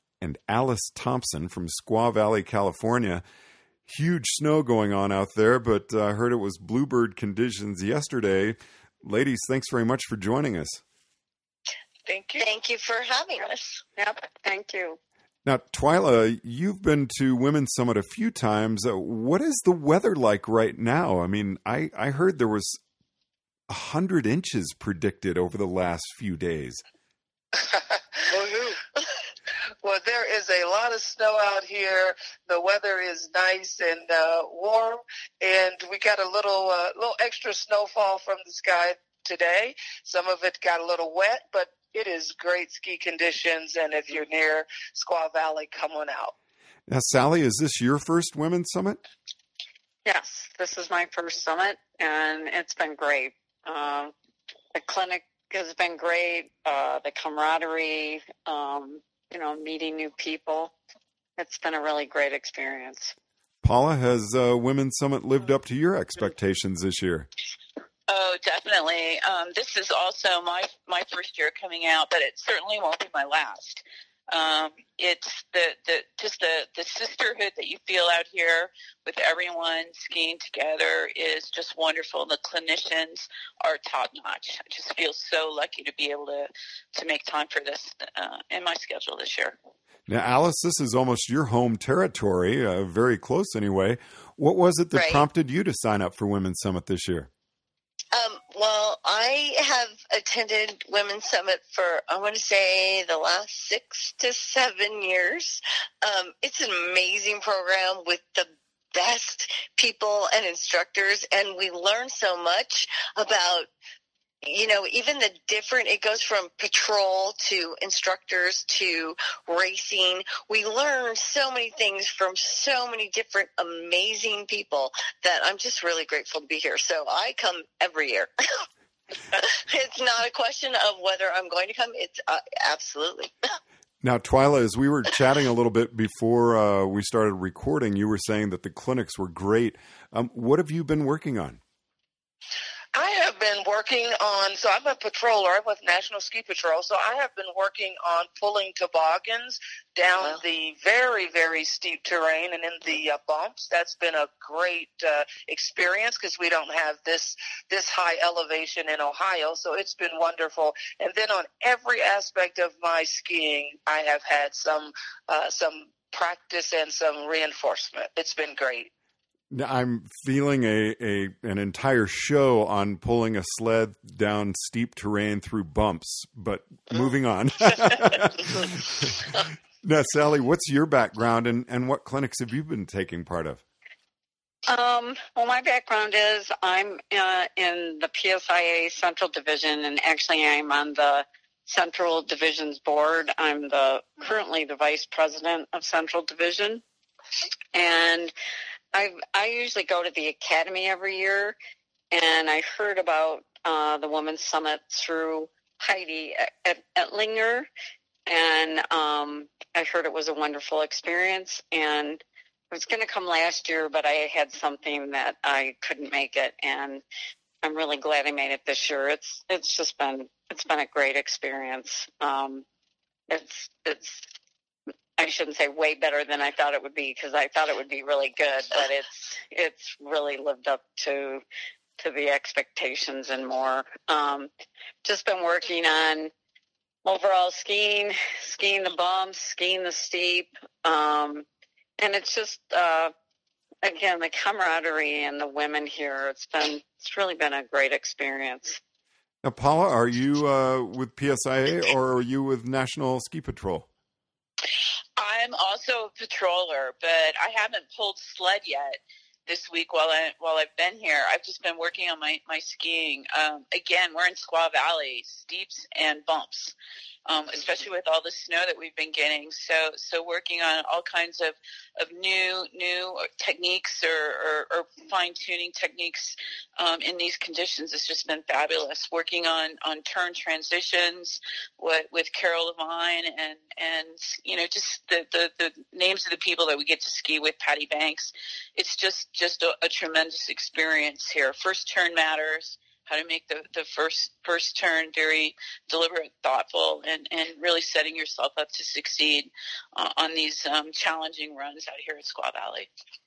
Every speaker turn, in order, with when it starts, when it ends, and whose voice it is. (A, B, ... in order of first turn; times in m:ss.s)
0:00.2-0:03.2 A
0:03.9-0:10.8 A
0:12.1-0:12.5 B
0:12.4-0:13.8 C
0:14.0-0:15.0 D
0:15.5-0:22.8 A
0:23.7-0:26.8 A
0:27.6-0:28.7 B
0:29.8-0:46.3 B
0:46.9-0:49.0 A
0:50.0-0:54.1 D
0:54.7-1:00.8 D
1:01.4-1:03.1 D
1:03.6-1:07.3 A
1:08.1-1:29.6 E
1:30.1-1:37.3 A
1:34.9-1:35.3 C
1:38.1-1:53.7 C
1:54.4-2:08.7 C
2:09.4-2:13.3 C
2:14.0-2:21.6 A
2:23.0-2:48.9 B
2:49.5-3:03.6 A
3:04.7-3:16.8 D
3:17.7-3:18.3 D
3:18.9-3:21.6 D
3:22.1-3:27.7 D
3:28.3-3:37.0 D
3:37.6-3:42.6 D
3:43.3-3:44.2 D
3:45.2-3:51.4 D
3:52.0-3:54.5 D
3:55.0-3:56.3 D
3:57.0-4:01.5 D
4:02.0-4:03.1 D
4:03.8-4:08.8 D
4:09.4-4:13.9 A
4:15.2-4:26.8 E
4:27.3-5:02.9 E